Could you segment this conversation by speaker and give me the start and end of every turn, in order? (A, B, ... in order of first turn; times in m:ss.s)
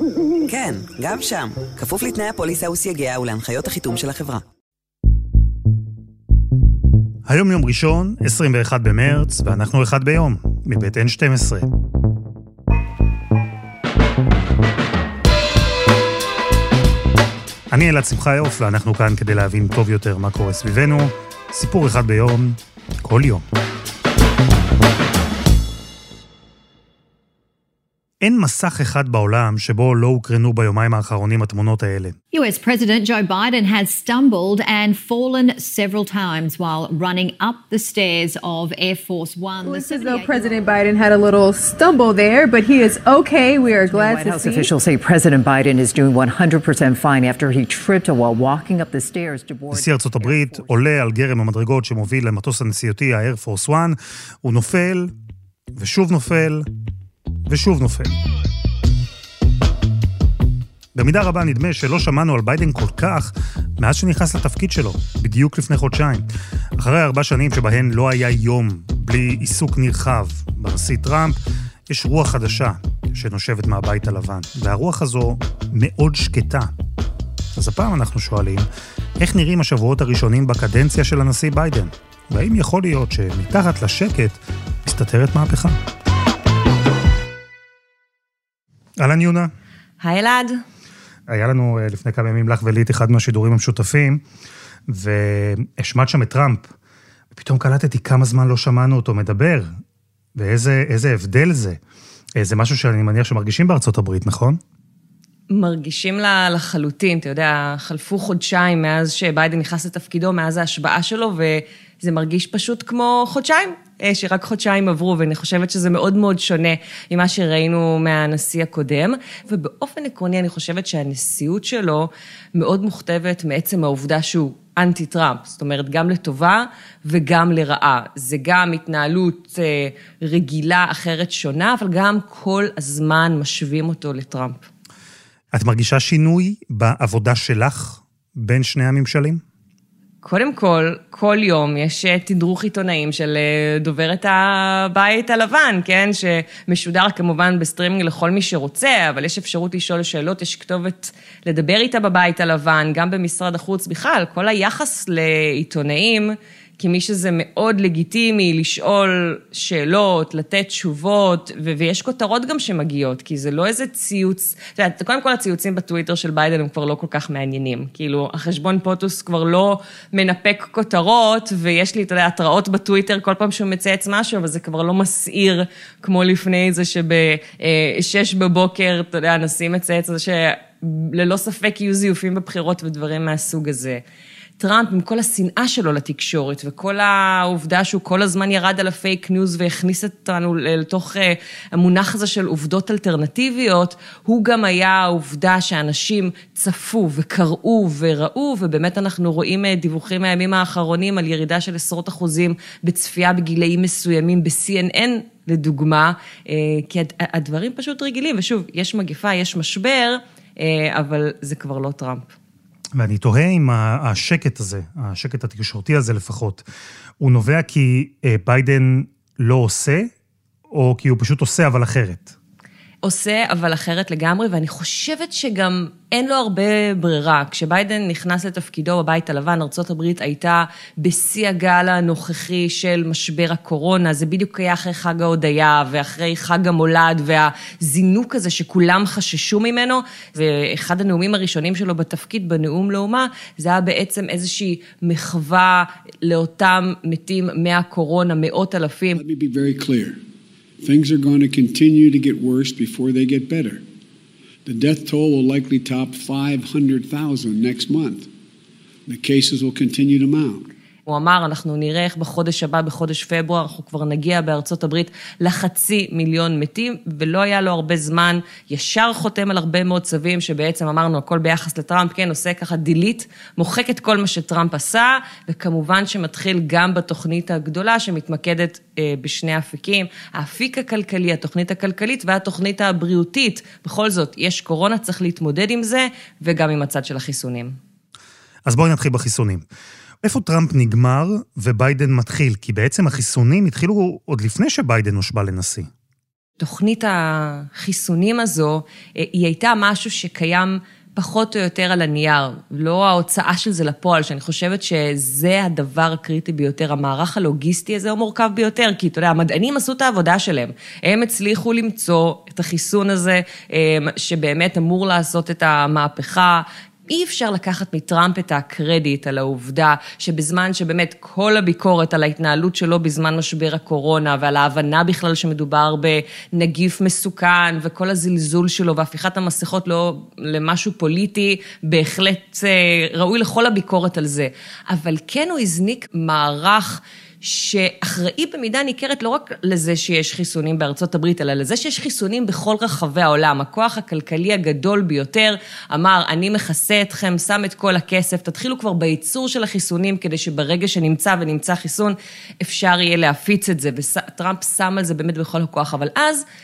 0:00.4-0:04.4 A
0:07.3-0:11.6 B
0:17.7-0:23.4 B
0:28.2-0:32.1 B
0:32.3-0:40.7 C
0:39.6-0:44.6 D
0:43.8-0:50.7 E
0:49.7-0:55.1 B
0:55.8-0:56.6 B
0:57.5-0:58.1 B
1:00.9-1:11.4 B
1:11.9-1:16.7 B
1:17.5-1:18.6 B
1:19.2-1:25.7 B
1:29.0-1:29.5 B
1:30.0-1:30.6 F
1:31.3-1:34.2 B
1:34.9-1:36.7 B
1:37.3-1:39.7 B
1:40.4-1:41.8 B
1:42.4-1:44.6 B
1:45.5-2:14.7 F
2:15.5-2:19.4 B
2:20.2-3:04.0 F
3:04.6-3:32.3 F
3:33.0-3:36.6 B
3:37.2-3:40.1 B
3:40.7-3:42.3 B
3:43.0-4:09.2 F
4:09.2-4:10.2 G
4:10.8-4:13.8 G
4:14.6-4:18.3 G
4:19.1-4:20.7 G
4:21.1-4:47.7 F
4:48.6-4:49.6 B
4:50.2-4:55.9 B
4:56.6-5:56.4 F